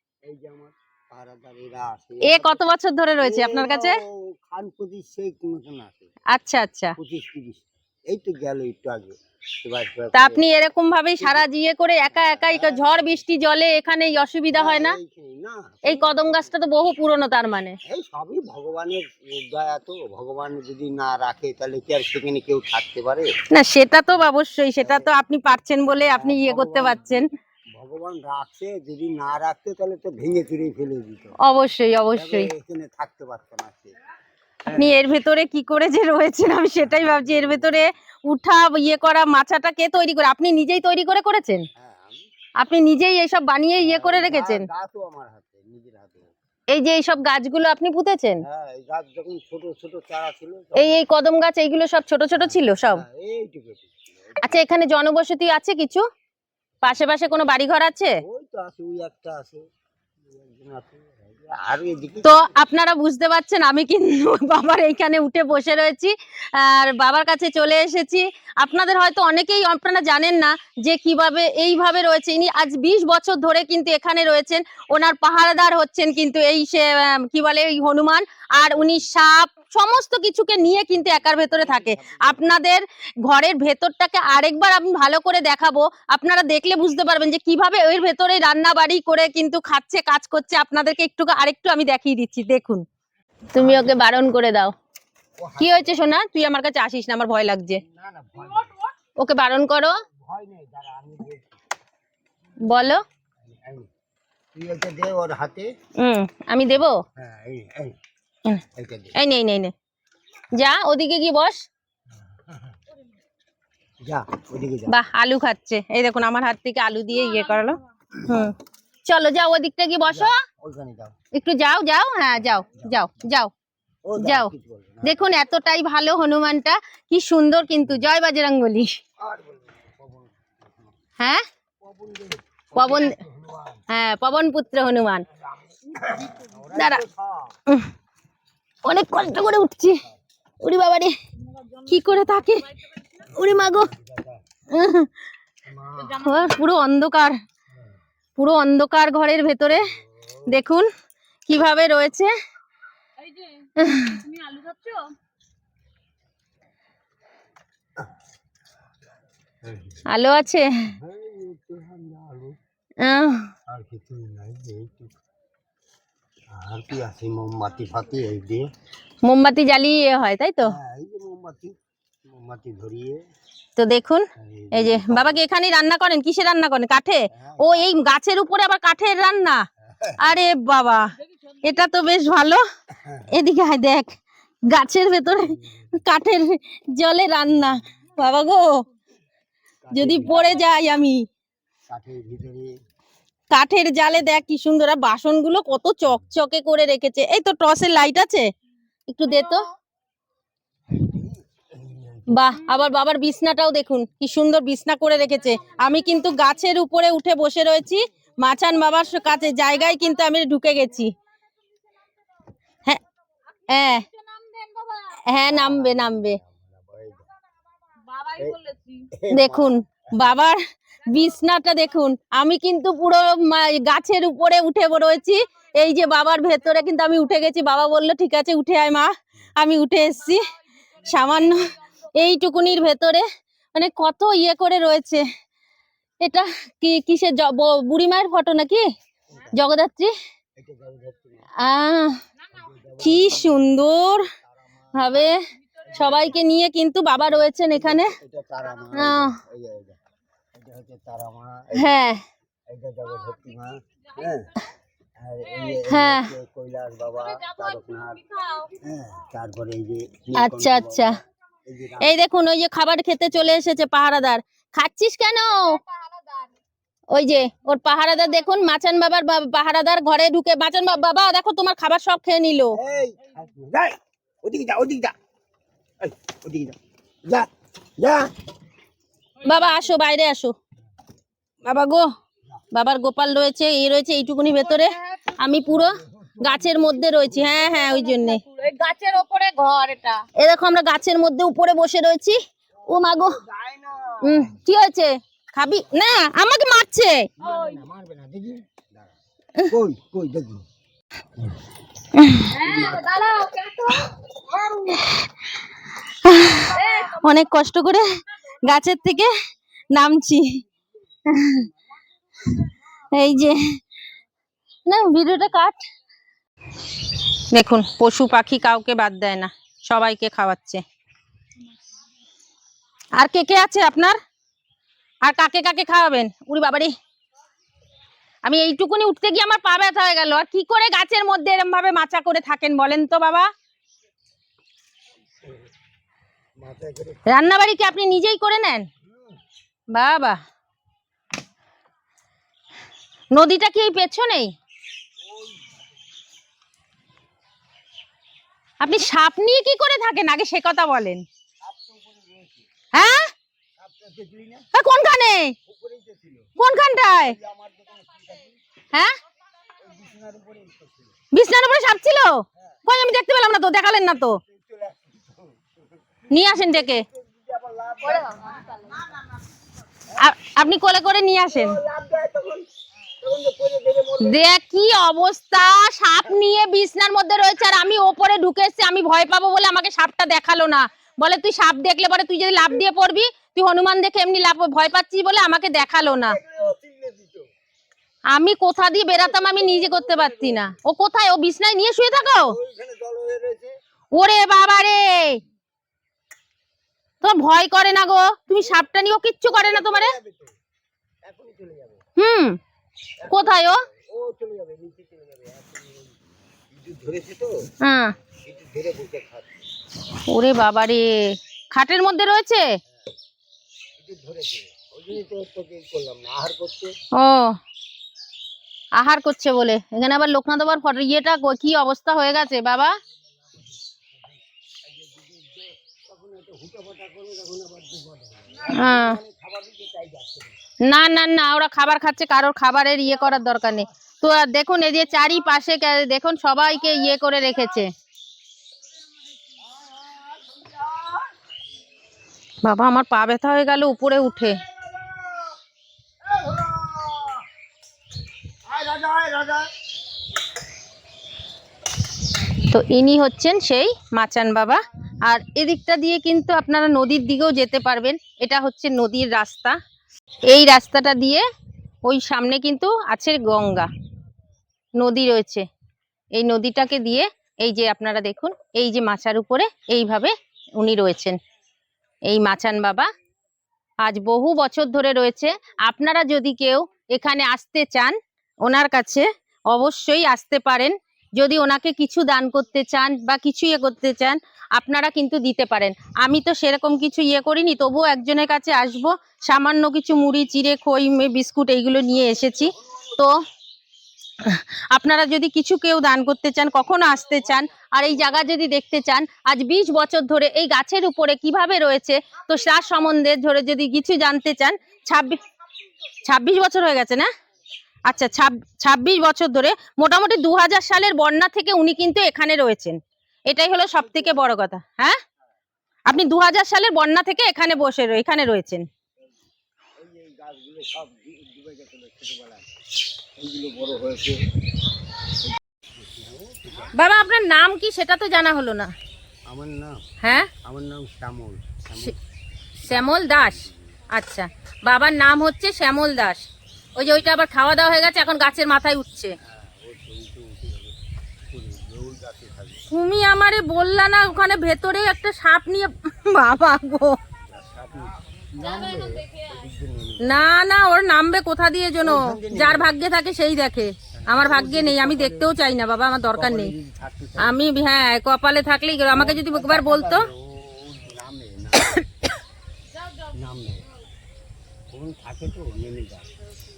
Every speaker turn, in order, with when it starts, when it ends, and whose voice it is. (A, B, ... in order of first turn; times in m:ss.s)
0:00.2-0:02.6 A
0:02.2-0:04.0 B
0:03.2-0:06.1 A
0:06.3-0:06.9 B
0:07.0-0:10.4 A
0:10.1-0:15.0 B
0:11.2-0:11.4 A
0:12.1-0:13.2 A
0:14.5-0:16.5 A
0:15.8-0:17.8 B
0:17.8-0:23.3 A
0:23.5-0:27.3 B
0:24.8-0:25.1 A
0:25.9-0:31.4 A
0:31.4-0:32.5 B
0:32.1-0:33.9 A
0:34.6-0:35.0 A
0:34.7-0:41.6 B
0:36.8-0:37.9 A
0:41.8-0:42.2 A
0:42.6-0:44.7 B
0:43.8-0:46.3 A
0:46.7-0:48.4 B
0:48.4-0:51.0 A
0:50.8-0:53.0 B
0:52.4-0:54.6 A
0:54.4-0:56.0 B
0:56.8-0:58.1 B
0:58.2-0:59.6 A
1:00.3-1:02.6 A
1:02.2-1:32.8 B
1:18.6-1:19.1 A
1:20.6-1:22.5 A
1:33.5-1:34.7 B
1:33.5-1:34.0 A
1:35.4-1:36.0 A
1:35.6-1:37.8 B
1:37.8-1:38.7 A
1:39.2-1:40.0 B
1:40.1-1:41.5 A
1:42.7-1:43.0 B
1:43.4-1:43.9 A
1:44.5-1:45.7 A
1:46.0-1:47.0 B
1:47.2-1:48.0 A
1:48.6-1:49.1 A
1:49.1-1:49.7 B
1:50.5-1:51.6 B
1:52.3-1:52.8 A
1:54.0-1:55.0 A
1:54.9-2:00.4 B
1:58.1-1:58.5 A
2:00.1-2:01.2 A
2:01.3-2:03.5 B
2:02.4-2:03.0 A
2:04.0-2:05.2 A
2:04.2-2:04.5 B
2:05.0-2:09.0 B
2:09.2-2:10.9 A
2:11.2-2:11.4 B
2:11.8-2:13.8 A
2:12.7-2:13.2 B
2:13.9-2:15.2 B
2:15.5-2:17.6 A
2:16.7-2:17.0 B
2:18.8-2:20.0 B
2:20.6-2:21.1 B
2:21.8-2:22.7 B
2:23.3-2:24.4 A
2:23.3-2:23.9 B
2:24.7-2:25.1 B
2:25.6-2:26.5 A
2:26.1-2:27.4 B
2:28.4-2:29.9 B
2:29.7-2:30.5 A
2:30.5-2:30.9 B
2:31.5-2:32.3 B
2:33.8-2:34.2 B
2:34.4-2:35.0 C
2:39.6-2:40.0 A
2:40.1-2:40.9 B
2:40.9-2:42.6 A
2:43.0-2:43.5 B
2:43.7-2:45.1 A
2:46.5-2:48.7 A
2:49.2-2:50.8 B
2:50.6-2:53.2 A
2:53.8-2:59.6 B
2:54.4-2:55.4 A
2:57.3-2:57.8 A
2:59.8-3:00.2 A
3:00.2-3:01.1 B
3:01.6-3:02.6 B
3:02.9-3:03.3 A
3:03.3-3:08.8 B
3:05.3-3:05.9 A
3:09.8-3:10.6 A
3:09.9-3:11.2 B
3:11.9-3:12.7 A
3:13.5-3:18.5 B
3:19.1-3:19.7 B
3:20.9-3:22.4 A
3:22.3-3:31.1 B
3:25.6-3:25.9 A
3:33.7-3:34.0 B
3:34.3-3:34.9 C
3:35.3-3:36.4 B
3:35.4-3:37.3 A
3:38.1-3:39.0 C
3:39.1-3:40.3 A
3:39.3-3:50.4 B
3:51.0-3:55.2 B
3:56.2-3:58.8 B
3:59.5-4:00.1 B
4:00.6-4:01.5 A
4:01.6-4:02.2 B
4:02.5-4:05.1 A
4:03.0-4:04.3 B
4:04.9-4:05.4 B
4:05.9-4:06.2 A
4:05.9-4:08.1 B
4:07.2-4:10.0 A
4:08.9-4:09.4 B
4:10.5-4:11.9 A
4:11.7-4:12.2 B
4:12.7-4:14.5 A
4:15.2-4:22.2 A
4:15.8-4:16.3 B
4:20.3-4:21.2 B
4:22.0-4:25.8 B
4:27.1-4:32.8 B
4:32.7-4:35.1 A
4:36.0-4:38.3 A
4:39.4-4:40.5 B
4:41.6-4:42.1 B
4:42.7-4:48.4 B
4:45.6-4:47.8 A
4:48.0-4:50.2 C
4:50.3-4:53.4 B
4:52.8-4:54.6 A
4:54.2-4:57.3 B
4:57.4-5:00.7 A
4:57.4-4:57.8 C
5:02.1-5:02.9 B
5:02.6-5:03.1 A
5:02.7-5:03.9 C
5:04.6-5:05.3 B
5:06.1-5:09.3 B
5:09.9-5:10.6 B
5:11.3-5:11.6 B
5:12.4-5:13.7 B
5:14.8-5:15.8 B
5:17.5-5:20.8 B
5:23.2-5:24.2 B
5:25.2-5:26.9 B
5:28.4-5:33.5 B
5:36.6-5:37.4 A
5:37.3-5:38.9 B
5:39.0-5:39.4 A
5:39.9-5:40.4 B
5:43.3-5:44.5 B
5:45.2-5:45.8 A
5:48.8-5:51.2 B
5:51.6-5:52.6 A
5:52.9-5:53.3 B
5:53.8-5:54.7 A
5:54.7-5:55.5 B
5:55.6-5:56.5 A
5:56.6-5:57.4 B
5:57.2-5:58.6 A
5:59.8-6:01.1 A
6:01.3-6:04.4 B
6:04.4-6:08.7 A
6:06.3-6:07.0 B
6:10.2-6:11.8 B
6:11.4-6:12.7 A
6:13.2-6:14.5 A
6:14.2-6:26.4 B
6:25.9-6:27.5 A
6:28.3-6:32.6 B
6:29.1-6:30.7 A
6:32.1-6:33.7 A
6:34.1-6:35.4 B
6:37.2-6:40.1 B
6:39.4-6:40.5 A
6:41.2-6:42.0 A
6:42.2-6:42.6 B
6:43.2-6:46.2 A
6:43.3-6:43.8 B
6:46.7-6:47.5 A
6:47.8-6:48.1 B
6:48.4-6:49.5 A
6:50.3-6:52.7 B
6:54.0-6:56.9 A
6:57.1-6:57.6 B
6:59.0-7:02.9 B
7:04.2-7:10.6 A
7:08.7-7:09.2 B
7:10.8-7:17.9 B
7:19.6-7:21.3 A
7:22.6-7:24.6 B
7:24.8-7:25.5 A
7:26.2-7:27.4 A
7:28.6-7:29.8 A
7:32.5-7:39.8 B
7:40.4-7:41.4 B
7:42.0-7:43.9 B
7:45.0-7:45.7 B
7:46.3-7:51.4 B
7:52.2-7:53.1 B
7:54.0-8:13.4 B
8:14.4-8:25.4 B
8:26.2-8:27.3 B
8:28.1-8:35.2 B
8:36.1-8:38.8 B
8:40.0-8:42.6 A
8:43.4-8:44.4 A
8:46.0-8:46.9 A
8:46.9-8:48.9 B
8:49.5-8:50.0 A
8:50.2-8:50.5 B
8:50.5-8:52.2 A
8:52.8-8:53.9 A
8:52.8-8:56.4 B
8:57.0-8:57.3 A
8:57.0-8:59.3 B
8:59.4-9:01.0 A
9:01.5-9:02.8 A
9:02.9-9:07.2 B
9:07.5-9:10.4 A
9:10.2-9:16.7 B
9:12.0-9:12.9 A
9:14.1-9:15.5 A
9:16.3-9:17.6 A
9:17.4-9:20.3 B
9:19.1-9:22.1 A
9:23.2-9:23.9 A
9:24.9-9:26.3 A